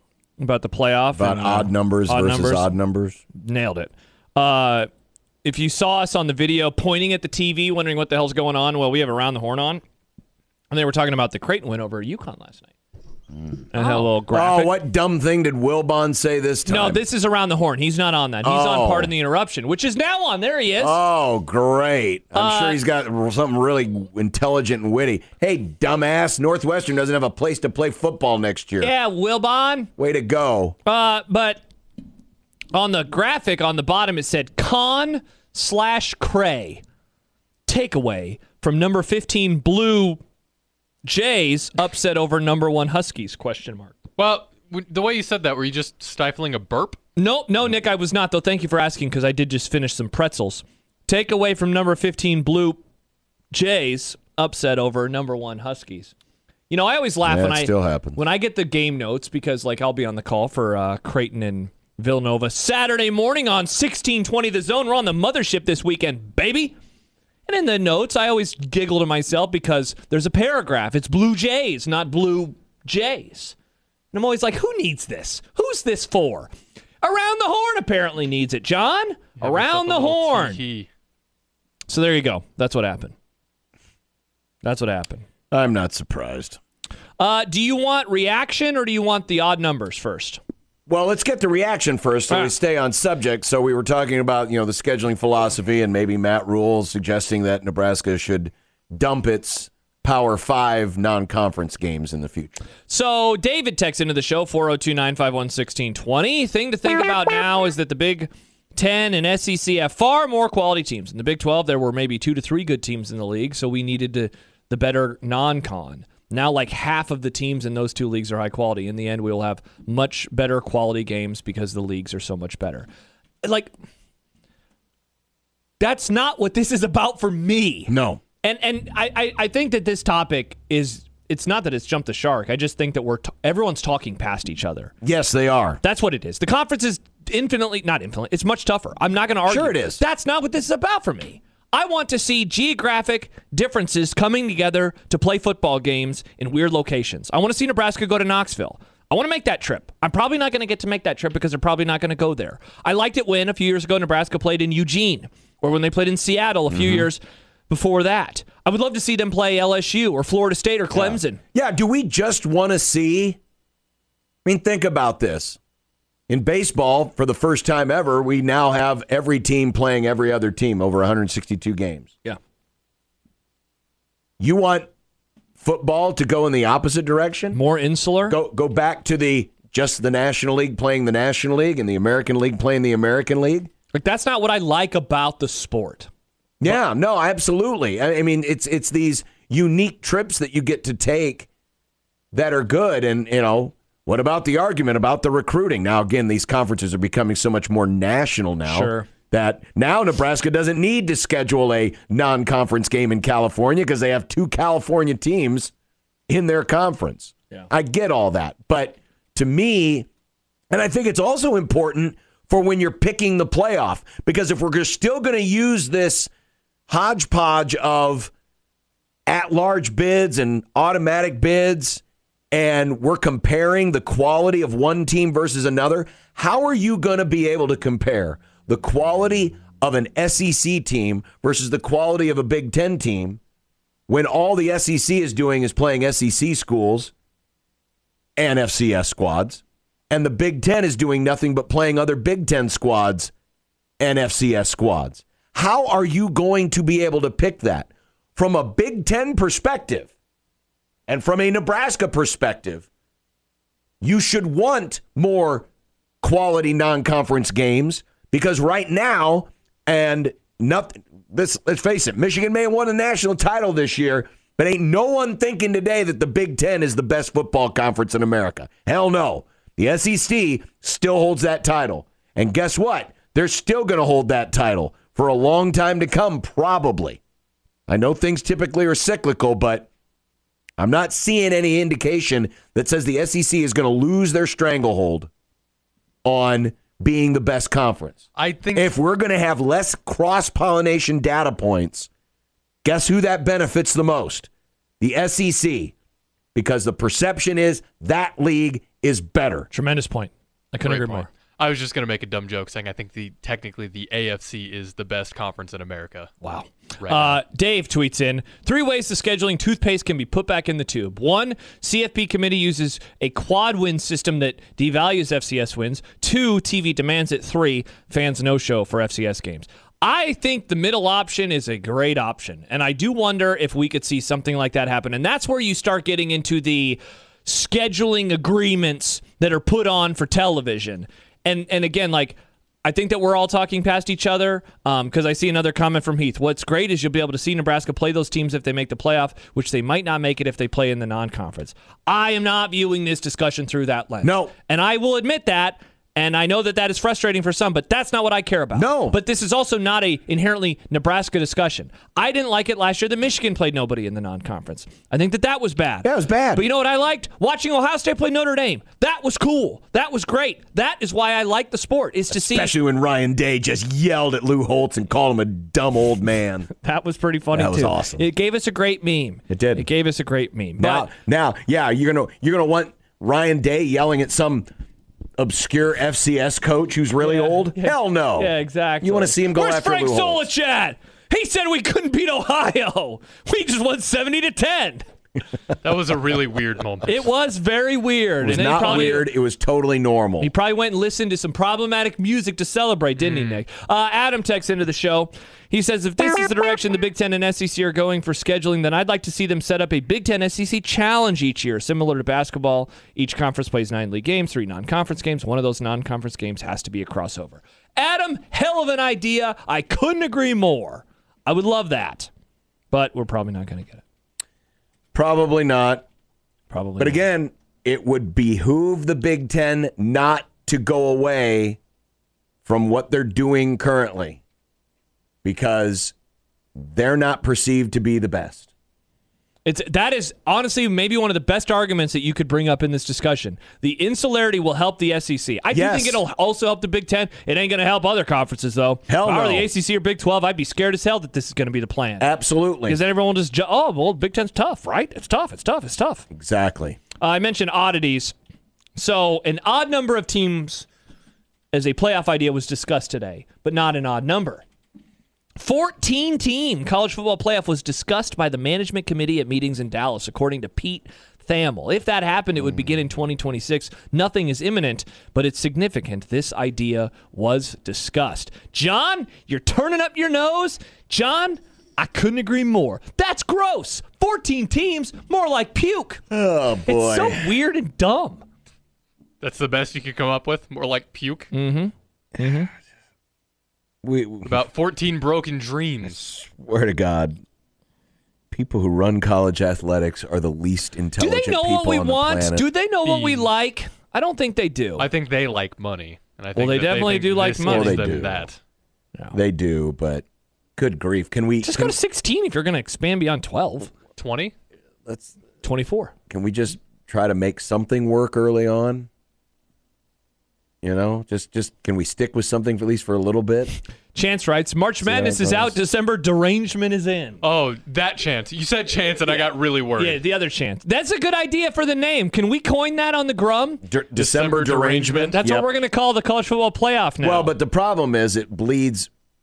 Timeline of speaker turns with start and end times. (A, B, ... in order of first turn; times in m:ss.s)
0:00.4-0:02.7 A
0:01.2-0:03.2 B
0:03.3-0:04.9 A
0:05.4-0:09.8 A
0:10.7-0:12.7 A
0:13.4-0:17.0 B
0:13.7-0:14.8 A
0:16.6-0:21.0 A
0:18.4-0:19.1 B
0:20.8-0:28.9 B
0:22.3-0:22.8 A
0:28.8-0:29.9 A
0:30.0-0:30.8 B
0:30.8-0:31.6 A
0:32.7-0:36.8 A
0:37.7-0:40.2 A
0:41.0-0:44.0 A
0:44.2-0:47.0 C
0:47.2-0:52.8 A
0:53.5-0:56.1 A
0:56.7-1:06.7 A
0:57.2-0:58.2 B
1:07.5-1:13.6 A
1:14.1-1:16.5 A
1:17.0-1:20.6 A
1:19.4-1:20.9 C
1:21.9-1:23.1 A
1:24.6-1:25.2 A
1:25.5-1:26.6 B
1:27.2-1:30.4 A
1:30.9-1:42.6 B
1:42.9-2:02.9 A
2:03.4-2:03.7 A
2:05.8-2:07.9 A
2:07.9-2:08.2 B
2:08.4-2:14.9 A
2:15.0-2:15.8 B
2:15.8-2:41.4 A
2:19.5-2:20.0 B
2:36.7-2:37.1 B
2:40.9-2:43.4 B
2:44.4-2:45.6 B
2:46.3-2:52.1 B
2:54.4-2:54.9 B
2:55.6-2:57.6 B
2:57.5-2:58.4 A
2:58.3-3:03.7 B
3:03.9-3:06.1 A
3:06.6-3:11.5 B
3:12.3-3:25.7 B
3:18.6-3:19.1 A
3:26.3-3:30.1 B
3:30.7-3:36.3 B
3:36.9-3:38.3 B
3:39.3-3:53.4 B
3:54.1-3:57.1 B
3:58.4-4:03.3 B
4:04.0-4:10.1 B
4:11.1-4:12.9 B
4:14.0-4:15.7 B
4:16.2-4:37.2 B
4:37.9-4:39.9 B
4:40.8-4:45.3 B
4:46.2-4:48.2 B
4:48.3-4:49.0 C
4:48.7-4:52.1 B
4:52.8-4:54.5 B
4:55.0-4:55.9 B
4:56.5-4:59.7 B
4:59.7-5:01.3 A
5:00.8-5:06.3 C
5:06.4-6:02.7 A
5:07.0-5:07.4 C
5:44.2-5:44.5 B
5:48.7-5:49.2 B
5:56.0-5:56.6 B
6:02.3-6:06.7 B
6:06.7-6:11.1 A
6:07.5-6:08.2 B
6:09.5-6:09.8 B
6:10.8-6:14.7 B
6:15.4-6:20.4 B
6:17.2-6:25.0 A
6:25.8-6:27.3 C
6:27.1-6:29.3 A
6:28.4-6:30.5 B
6:28.7-6:29.1 C
6:30.4-6:52.3 A
6:33.2-6:33.6 C
6:52.9-6:54.0 A
6:55.1-6:56.0 B
6:56.7-6:57.2 A
6:57.0-7:01.8 B
7:02.6-7:04.4 B
7:05.4-7:06.1 B
7:06.8-7:08.7 B
7:09.6-7:22.3 A
7:15.7-7:16.2 B
7:19.1-7:19.7 B
7:22.2-7:23.0 B
7:22.9-7:26.2 A
7:26.3-7:27.0 B
7:27.2-7:28.3 A
7:29.0-7:30.9 A
7:31.7-7:34.6 A
7:35.6-7:56.2 A
7:56.3-7:57.5 B
7:56.8-7:58.4 A
7:59.4-8:01.5 C
8:01.5-8:02.7 A
8:04.0-8:04.6 B
8:04.4-8:06.2 C
8:06.0-8:07.4 B
8:08.5-8:12.6 B
8:11.2-8:15.0 A
8:13.0-8:13.5 C
8:15.0-8:18.6 C
8:16.6-8:18.2 A
8:17.4-8:18.5 B
8:19.3-8:20.2 B
8:20.8-8:22.0 B
8:21.6-8:23.9 A
8:24.2-8:24.5 C
8:25.0-8:25.4 B
8:25.6-8:26.1 A
8:26.3-8:29.1 B
8:30.8-8:33.7 B
8:34.1-8:37.4 A
8:35.0-8:35.8 B
8:37.4-8:40.2 C
8:39.3-8:43.8 A
8:43.8-8:45.7 B
8:44.2-8:45.4 C
8:45.3-8:47.5 A
8:47.2-8:49.1 B